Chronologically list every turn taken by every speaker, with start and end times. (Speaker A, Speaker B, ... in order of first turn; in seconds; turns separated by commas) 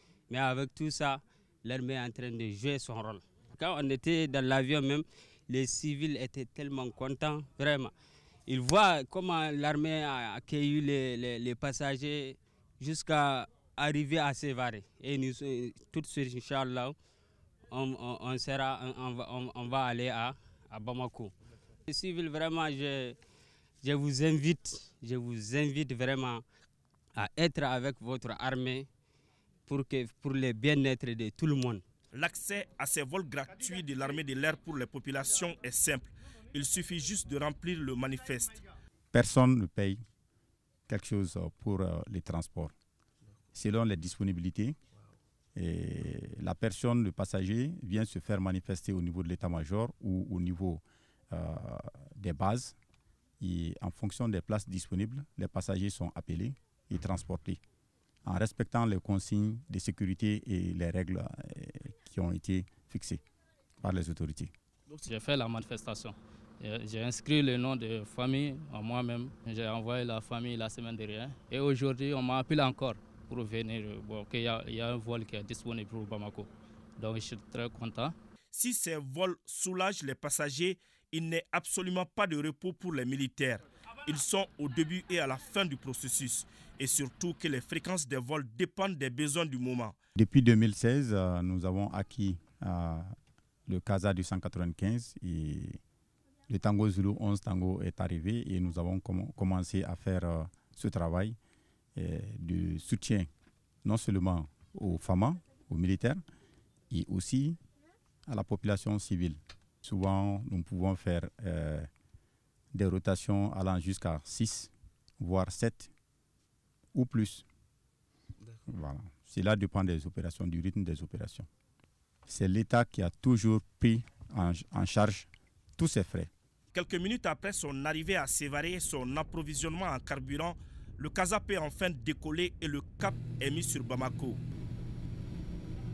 Speaker A: 0.3-7.9, Speaker A: 8.5-16.9, Speaker A: 17.7-21.3, Speaker A: 21.9-23.1, Speaker A: 23.8-26.4, Speaker A: 27.2-28.9, Speaker A: 29.7-31.8, Speaker B: 32.1-38.6, Speaker C: 39.1-40.0, Speaker C: 40.9-42.7, Speaker C: 43.5-44.8, Speaker C: 45.5-52.8, Speaker C: 53.4-57.6, Speaker C: 58.2-63.2, Speaker C: 63.8-64.5, Speaker D: 64.9-78.2, Speaker B: 78.5-90.0, Speaker C: 90.2-93.2, Speaker C: 93.7-95.8, Speaker C: 96.5-101.4, Speaker C: 102.0-103.3, Speaker C: 103.8-106.2, Speaker C: 106.9-107.6, Speaker C: 108.3-111.9, Speaker C: 112.7-115.9, Speaker C: 117.0-117.4, Speaker C: 118.7-121.5, Speaker C: 122.3-126.3, Speaker B: 126.7-134.4